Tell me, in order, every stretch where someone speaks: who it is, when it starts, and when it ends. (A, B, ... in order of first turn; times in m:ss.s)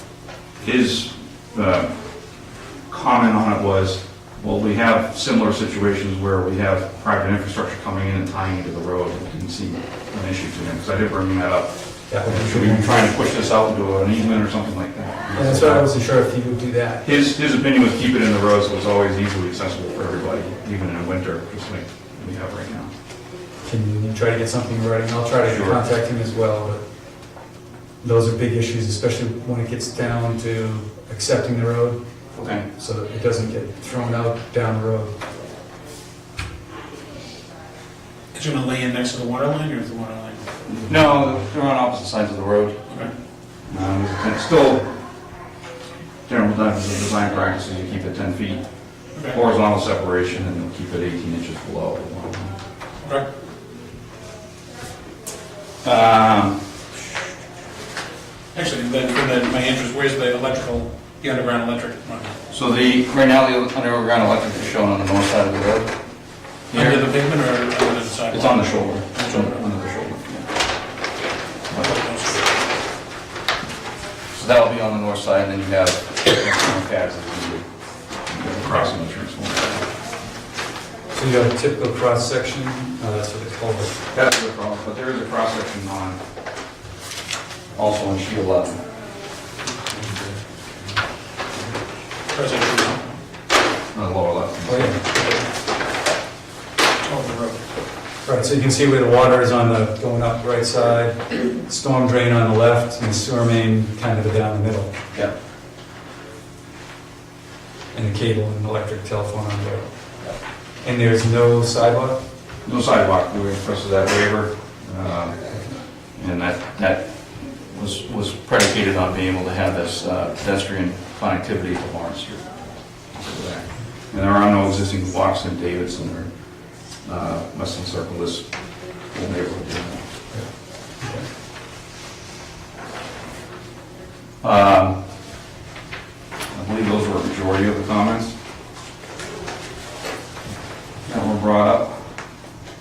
0:00.6-0:01.9 A
0:02.9-0:15.9 A
0:12.1-0:13.1 B
0:15.3-0:17.1 B
0:17.0-0:22.9 A
0:23.6-0:26.8 B
0:25.5-0:25.8 A
0:28.0-0:32.0 B
0:32.4-0:32.7 A
0:32.7-0:35.1 B
0:38.3-0:40.4 C
0:40.7-0:42.8 A
0:40.9-0:41.3 B
0:43.7-0:44.9 A
0:46.3-0:48.6 A
0:49.3-0:52.6 A
0:53.0-0:53.3 C
0:55.8-0:56.6 A
0:58.5-1:02.3 C
1:02.5-1:05.9 A
1:06.7-1:07.1 A
1:06.7-1:09.6 C
1:08.3-1:10.4 A
1:11.7-1:12.4 C
1:14.3-1:17.6 A
1:18.3-1:19.8 A
1:21.1-1:24.0 B
1:24.1-1:26.2 A
1:27.8-1:28.8 A
1:30.0-1:30.3 A
1:32.3-1:33.1 C
1:33.9-1:35.0 A
1:34.6-1:35.0 B
1:37.0-1:37.6 C
1:38.2-1:44.9 B
1:47.9-1:49.9 B
1:50.8-1:52.2 B
1:52.6-1:55.4 A
1:56.2-1:57.0 A
1:57.7-2:02.4 A
2:03.1-2:06.3 A
2:07.0-2:08.5 A
2:09.1-2:10.0 A
2:14.4-2:15.0 A
2:16.5-2:18.4 A
2:21.0-2:22.1 A